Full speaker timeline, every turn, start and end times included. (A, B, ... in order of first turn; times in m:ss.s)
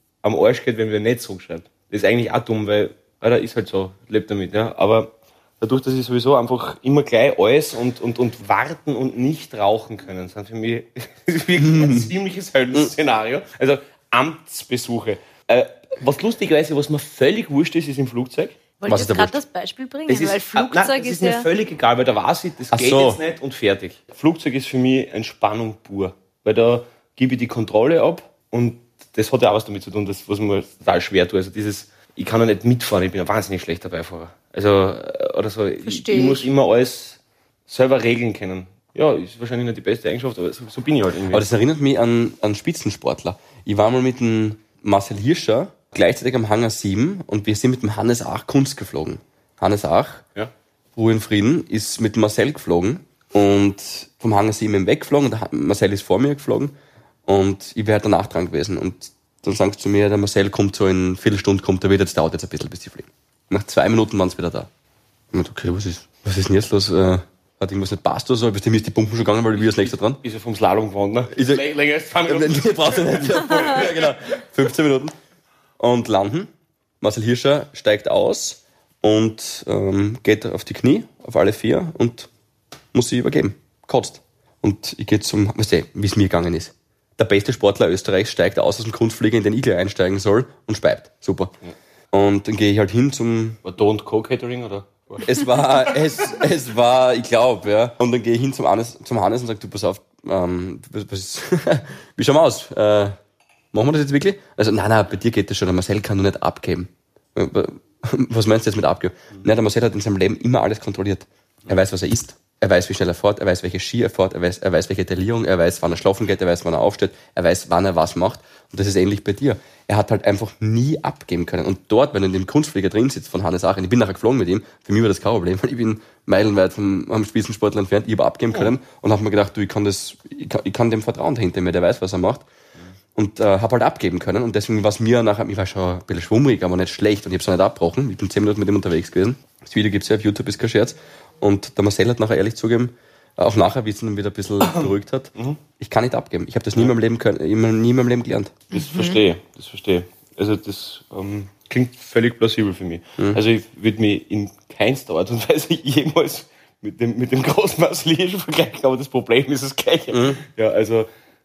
0:00.2-0:18.6 A
0:11.6-0:12.1 B
0:18.8-0:21.5 C
0:18.9-0:19.4 B
0:20.1-0:41.5 A
0:22.7-0:23.2 B
0:35.8-0:36.5 C
0:41.3-0:50.2 B
0:51.0-0:56.7 B
0:57.2-1:04.7 B
1:05.3-1:10.2 B
1:09.6-1:14.2 A
1:11.3-1:11.7 B
1:12.2-1:15.1 B
1:15.8-1:16.5 B
1:17.0-1:22.3 B
1:22.9-1:31.5 B
1:32.1-1:33.6 B
1:33.6-1:35.4 A
1:35.2-1:43.2 B
1:43.7-2:12.4 B
2:13.2-2:28.6 B
2:24.6-2:25.6 A
2:28.7-2:41.1 A
2:28.7-2:29.2 C
2:33.2-2:33.4 B
2:40.1-2:40.4 B